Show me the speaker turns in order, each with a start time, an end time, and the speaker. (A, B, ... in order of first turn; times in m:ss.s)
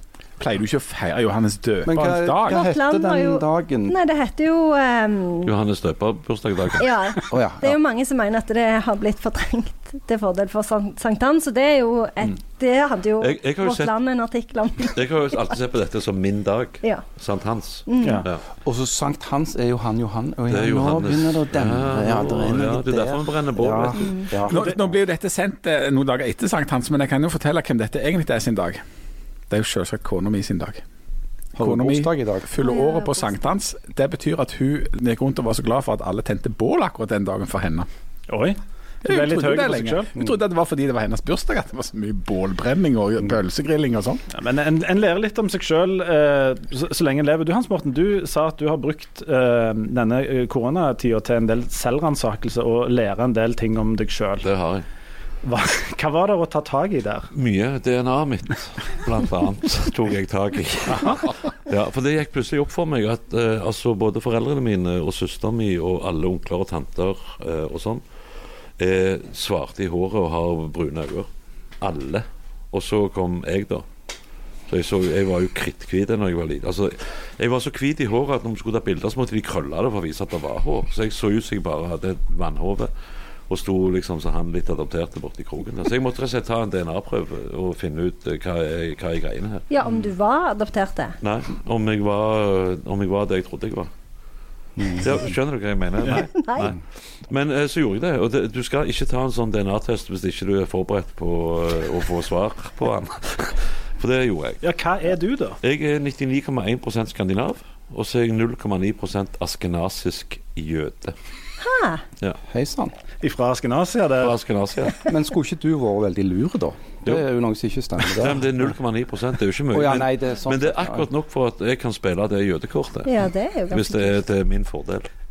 0:00.4-0:02.7 A
0:01.8-0:04.0 B
0:02.5-0:05.5 C
0:05.5-0:06.9 D
0:06.8-0:15.5 C
0:07.3-0:07.8 B
0:13.2-0:13.9 D
0:14.9-0:18.4 D
0:17.9-0:18.2 C
0:18.0-0:18.3 E
0:18.6-0:24.8 B
0:20.5-0:24.3 D
0:24.0-0:24.3 C
0:24.5-0:28.8 A
0:29.5-0:30.8 A
0:31.6-0:32.5 B
0:31.6-0:37.9 A
0:32.6-0:33.3 C
0:38.3-0:40.1 E
0:39.0-0:44.2 A
0:44.3-0:54.5 E
0:54.4-0:54.9 D
0:55.4-0:57.3 E
0:57.3-1:08.0 D
1:08.8-1:11.3 D
1:11.8-1:13.9 D
1:14.7-1:22.9 D
1:23.5-1:29.7 D
1:29.7-1:31.2 C
1:31.2-1:33.9 D
1:34.8-1:35.1 B
1:34.9-1:44.6 D
1:36.1-1:36.7 C
1:44.6-1:45.6 E
1:45.6-1:51.2 D
1:51.6-1:52.0 C
1:52.5-1:52.9 B
1:53.2-1:54.4 E
1:54.2-1:55.1 D
1:55.1-1:58.5 B
1:58.0-2:03.1 D
1:59.7-2:01.1 B
2:03.0-2:04.2 C
2:03.7-2:05.1 D